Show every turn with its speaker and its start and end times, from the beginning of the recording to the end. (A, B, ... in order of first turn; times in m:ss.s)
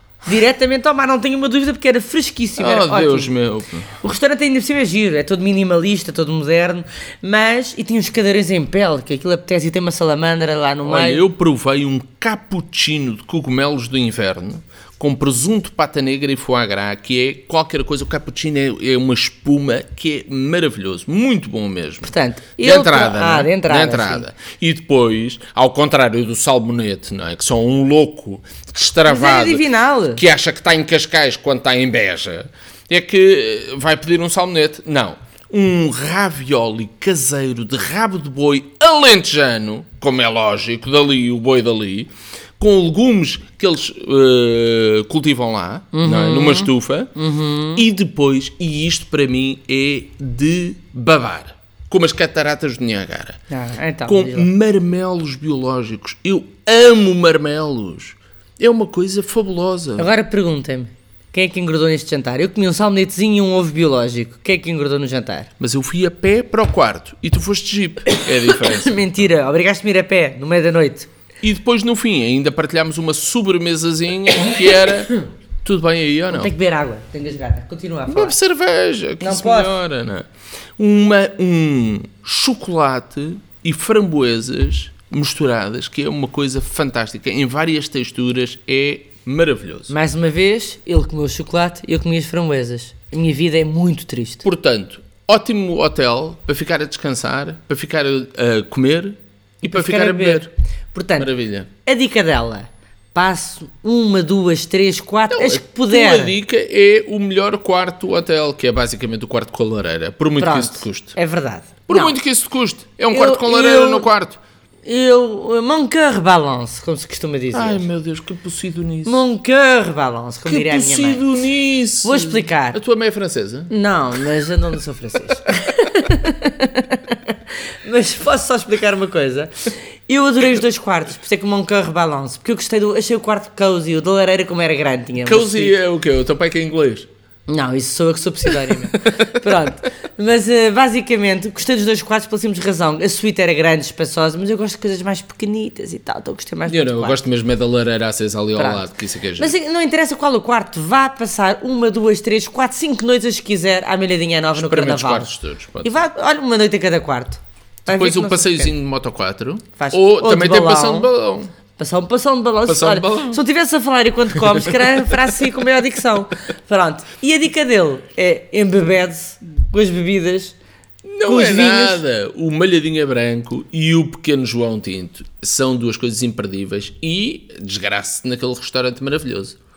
0:00.2-0:03.3 A
0:02.6-0:03.9 B
0:04.0-0:11.2 A
0:10.8-0:47.1 B
0:22.0-0:24.2 A
0:29.0-0:30.2 A
0:45.9-0:47.8 A
0:47.7-0:53.4 B
0:53.5-0:54.5 A
0:54.0-1:00.1 B
1:00.0-1:05.5 A
1:05.6-1:09.2 B
1:08.1-1:11.1 A
1:11.4-1:16.5 B
1:16.3-1:18.4 A
1:18.1-1:20.3 B
1:19.2-1:19.8 A
1:20.8-1:29.9 B
1:29.9-1:34.4 A
1:34.4-1:40.5 B
1:39.6-1:46.4 A
1:41.2-1:41.7 B
1:45.3-1:51.2 B
1:50.4-1:52.2 A
1:51.9-1:54.4 B
1:53.1-1:54.1 A
1:54.8-1:57.9 A
1:57.5-1:59.2 B
1:59.0-2:01.2 A
2:00.4-2:03.7 B
2:02.0-2:02.8 A
2:03.7-2:15.7 A
2:15.2-2:17.1 B
2:17.5-2:27.2 A
2:19.0-2:19.3 B
2:26.7-2:29.5 B
2:28.6-2:28.8 A
2:29.4-2:35.3 A
2:34.5-2:36.0 B
2:35.8-2:38.7 A
2:37.9-2:41.5 B
2:39.8-2:41.1 A
2:41.8-2:50.5 A
2:42.6-2:43.4 B
2:51.0-2:59.6 B
2:51.2-2:52.0 A